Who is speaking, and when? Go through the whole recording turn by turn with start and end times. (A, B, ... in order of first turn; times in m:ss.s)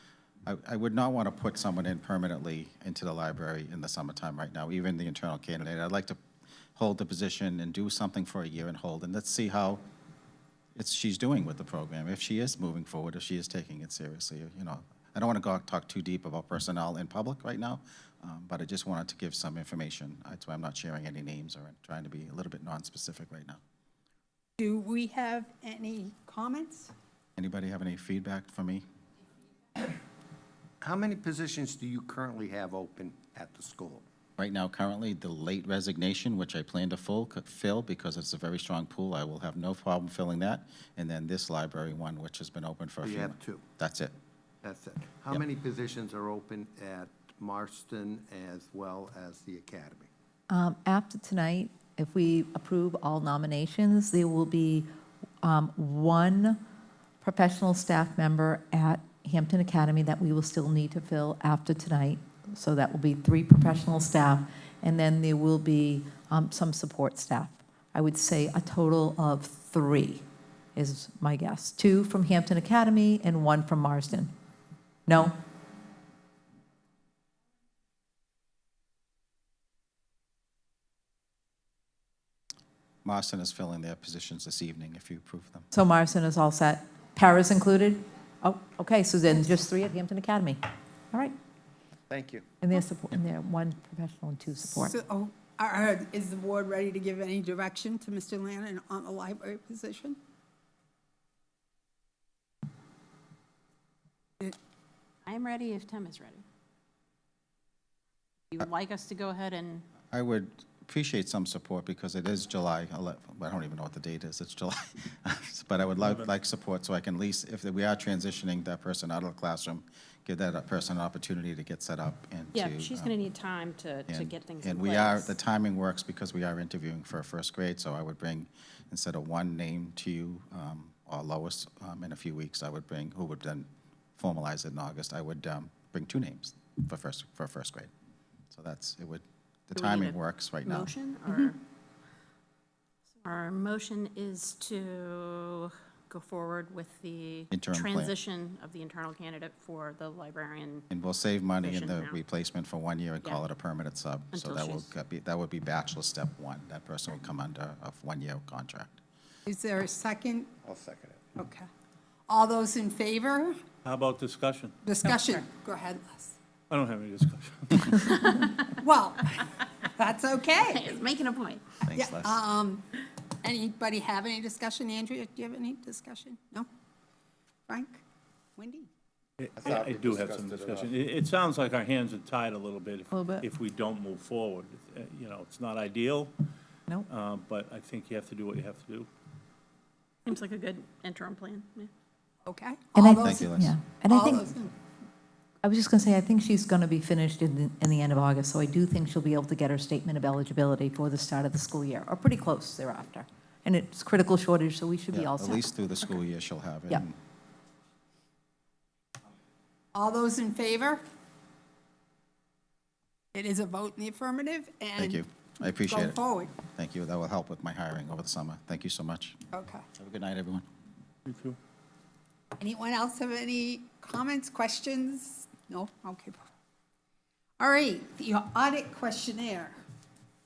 0:00.5-0:06.2 A
0:06.8-0:09.8 A
0:10.8-0:23.6 A
0:24.6-0:26.9 B
0:27.4-0:28.8 A
0:30.8-0:34.0 C
0:34.4-0:44.1 A
0:43.0-0:43.6 C
0:44.6-0:50.1 C
0:50.5-0:54.9 D
0:55.4-0:56.6 D
0:57.2-1:10.2 D
1:10.8-1:14.3 D
1:15.1-1:15.4 D
1:23.0-1:25.7 A
1:25.7-1:30.6 D
1:32.1-1:32.5 C
1:32.6-1:35.0 D
1:34.8-1:40.2 B
1:45.2-1:46.4 E
1:48.5-1:49.9 E
1:50.1-2:03.1 A
1:56.0-1:56.3 F
2:02.5-2:05.3 E
2:04.1-2:17.9 A
2:18.5-2:20.9 A
2:19.8-2:21.6 E
2:23.2-2:30.9 E
2:27.5-2:28.2 A
2:30.9-2:39.0 A
2:31.6-2:32.2 E
2:34.3-2:34.9 E
2:39.5-2:40.5 B
2:40.6-2:41.2 C
2:41.4-2:41.7 B
2:42.3-2:43.6 B
2:43.8-2:45.4 F
2:44.8-2:46.4 B
2:46.7-2:48.3 F
2:48.8-2:51.0 B
2:50.6-2:51.6 E
2:51.8-2:52.4 A
2:52.0-2:52.8 B
2:53.4-2:56.7 B
2:57.7-2:58.0 B
2:58.6-2:58.9 B
2:59.4-3:06.3 F
2:59.6-3:01.0 C
3:03.1-3:03.5 D
3:07.1-3:09.1 F
3:10.3-3:11.9 E
3:12.4-3:13.5 B
3:13.0-3:14.6 D
3:13.2-3:13.7 A
3:14.1-3:14.8 B
3:15.6-3:26.2 D
3:25.1-3:27.2 A
3:29.9-3:31.0 B
3:33.3-3:35.2 B
3:35.0-3:39.4 A
3:35.9-3:36.5 B
3:39.5-3:39.8 B
3:40.0-3:40.6 A
3:41.3-3:41.6 F
3:42.6-3:46.4 B
3:47.6-3:49.8 B